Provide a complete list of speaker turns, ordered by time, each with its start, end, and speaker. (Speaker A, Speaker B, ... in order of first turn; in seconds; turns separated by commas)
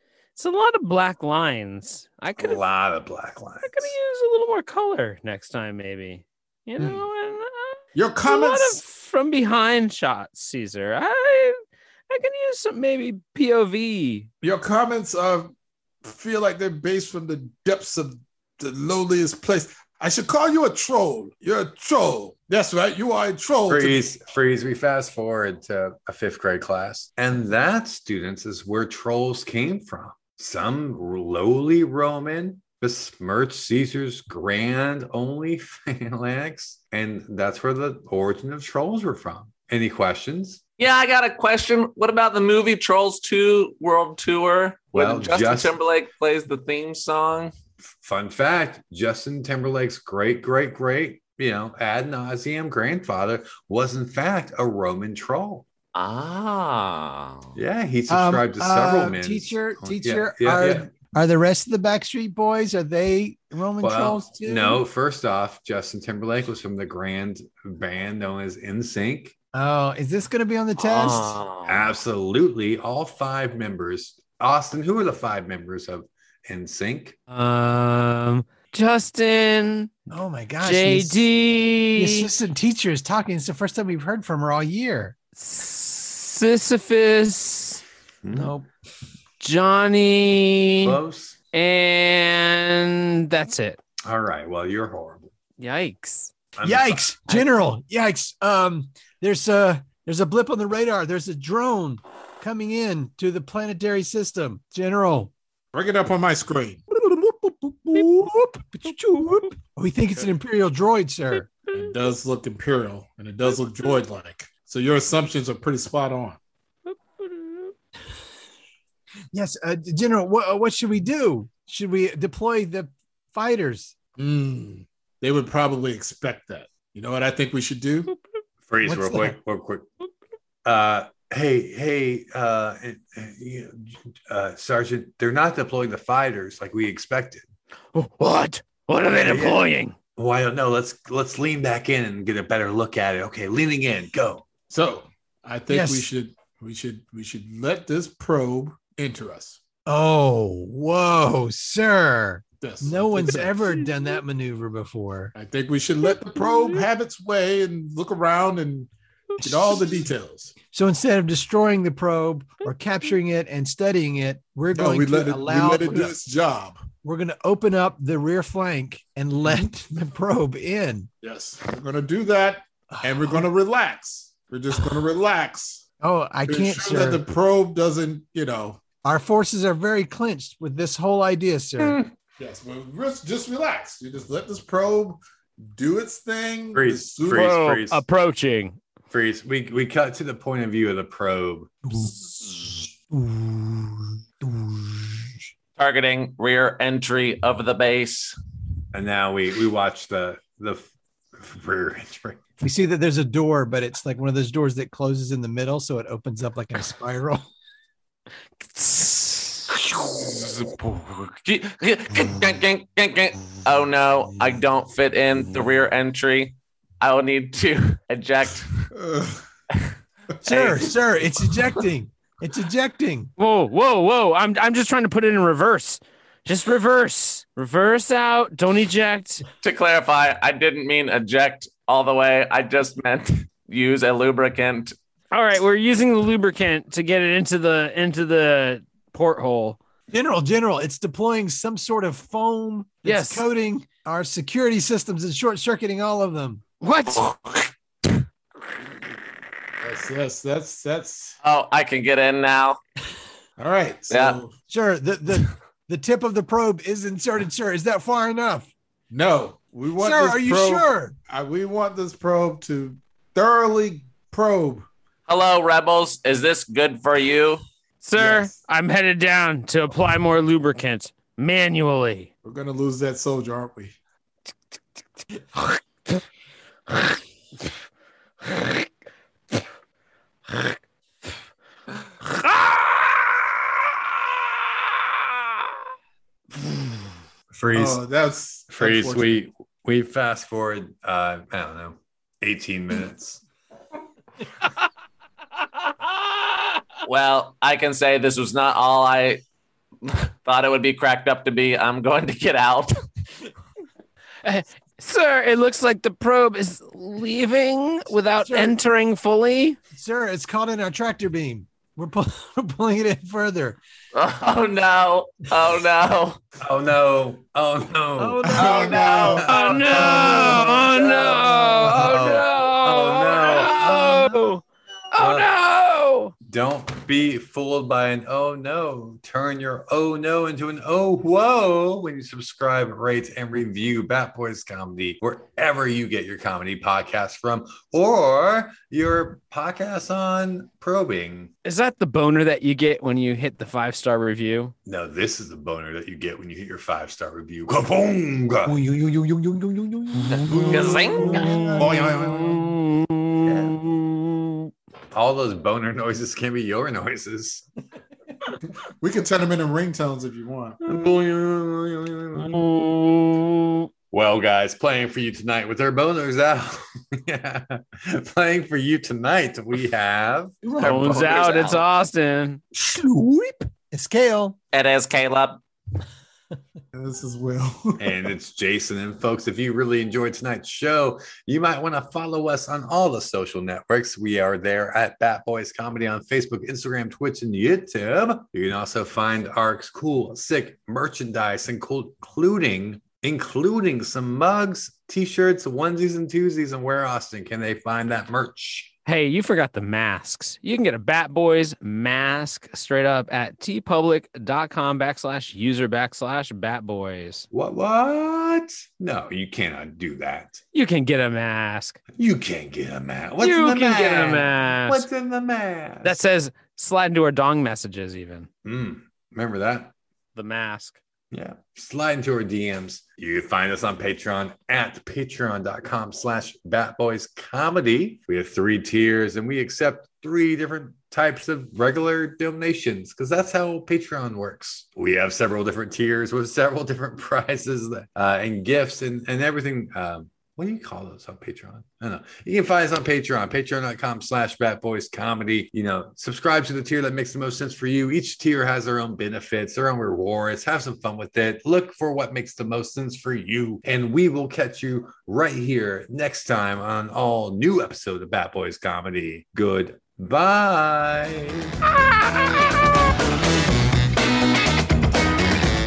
Speaker A: 0.3-2.6, Speaker B: 2.4-3.9, Speaker A: 3.6-14.3, Speaker C: 7.9-8.8, Speaker C: 14.4-24.1, Speaker B: 23.7-40.6, Speaker D: 40.8-47.5, Speaker B: 44.9-45.8, Speaker B: 48.0-55.6, Speaker D: 55.9-57.6, Speaker B: 57.5-60.9, Speaker E: 58.1-64.8, Speaker B: 63.8-69.3, Speaker E: 69.5-71.4, Speaker D: 70.8-71.9, Speaker B: 71.7-77.2, Speaker A: 77.3-79.9, Speaker E: 80.1-81.3, Speaker A: 80.6-82.3, Speaker E: 82.0-85.2, Speaker A: 85.4-87.8, Speaker B: 88.2-88.5, Speaker E: 88.3-88.7, Speaker A: 89.4-91.0, Speaker B: 90.8-91.4, Speaker A: 91.5-93.8, Speaker B: 94.0-95.3, Speaker A: 95.6-96.3, Speaker B: 96.5-97.3, Speaker E: 96.6-105.3, Speaker C: 105.7-106.8, Speaker E: 106.9-111.5, Speaker C: 111.7-116.4, Speaker A: 116.9-117.7, Speaker E: 119.3-123.9, Speaker C: 124.2-128.1, Speaker B: 128.7-129.9, Speaker E: 128.8-129.3, Speaker B: 130.6-137.5, Speaker A: 137.9-139.9, Speaker B: 139.1-144.4, Speaker C: 144.7-149.6, Speaker E: 145.7-146.1, Speaker E: 149.8-155.3, Speaker C: 152.6-153.7, Speaker C: 155.3-158.9, Speaker C: 159.4-160.5, Speaker E: 159.4-159.7, Speaker E: 160.7-166.1, Speaker C: 164.7-166.8, Speaker E: 167.0-171.1, Speaker C: 171.2-175.8, Speaker E: 172.9-173.4, Speaker E: 176.0-177.2, Speaker C: 176.4-178.8, Speaker E: 179.0-182.0, Speaker C: 182.4-187.6, Speaker B: 186.7-188.0, Speaker A: 187.3-188.8, Speaker B: 189.1-191.8, Speaker E: 191.8-195.4, Speaker D: 195.8-198.3, Speaker B: 198.9-202.4, Speaker E: 202.6-207.4, Speaker A: 208.7-209.7, Speaker D: 209.9-218.9, Speaker C: 218.9-219.4, Speaker E: 220.4-223.3, Speaker D: 220.5-221.0, Speaker A: 223.4-229.4, Speaker D: 229.6-234.9, Speaker A: 235.3-239.8, Speaker E: 240.1-246.6, Speaker A: 243.0-243.4, Speaker A: 246.8-247.7, Speaker C: 249.8-251.4, Speaker D: 251.4-252.8, Speaker C: 253.6-254.5, Speaker D: 254.1-254.4, Speaker E: 254.7-258.7, Speaker C: 259.1-264.9, Speaker E: 260.0-261.1, Speaker D: 265.3-267.6, Speaker A: 268.0-272.3, Speaker C: 268.1-268.6, Speaker C: 272.4-273.9, Speaker A: 278.4-278.8, Speaker A: 280.5-280.8, Speaker A: 282.3-283.2, Speaker B: 287.5-288.0, Speaker C: 287.7-289.4, Speaker B: 288.7-293.4, Speaker D: 297.1-299.4, Speaker D: 300.1-303.0, Speaker A: 304.4-309.8, Speaker E: 308.4-308.8, Speaker E: 309.9-313.8, Speaker D: 314.1-316.4, Speaker B: 316.6-319.8, Speaker E: 318.2-322.4, Speaker C: 318.4-319.4, Speaker D: 318.6-320.4, Speaker A: 319.4-326.3, Speaker C: 320.1-320.5, Speaker D: 321.0-321.4, Speaker B: 321.9-324.4, Speaker B: 325.1-325.5, Speaker B: 326.4-341.5, Speaker A: 341.6-344.7, Speaker B: 344.9-348.8, Speaker E: 348.6-352.1, Speaker D: 350.3-351.5, Speaker A: 350.7-354.7, Speaker C: 351.5-352.7, Speaker B: 353.4-353.8, Speaker B: 355.1-357.6, Speaker C: 358.9-360.8, Speaker B: 360.8-362.6, Speaker A: 362.4-363.9, Speaker B: 364.1-370.6, Speaker E: 370.6-371.4, Speaker D: 370.7-371.9, Speaker A: 370.8-372.6, Speaker E: 372.7-374.6, Speaker D: 374.7-375.6, Speaker C: 376.9-378.3, Speaker B: 378.0-398.9, Speaker A: 399.1-407.4, Speaker B: 407.5-410.6, Speaker A: 410.7-412.0, Speaker B: 412.2-416.2, Speaker A: 413.4-415.0, Speaker A: 416.0-418.5, Speaker B: 418.6-419.9, Speaker A: 420.4-421.0, Speaker B: 421.3-461.7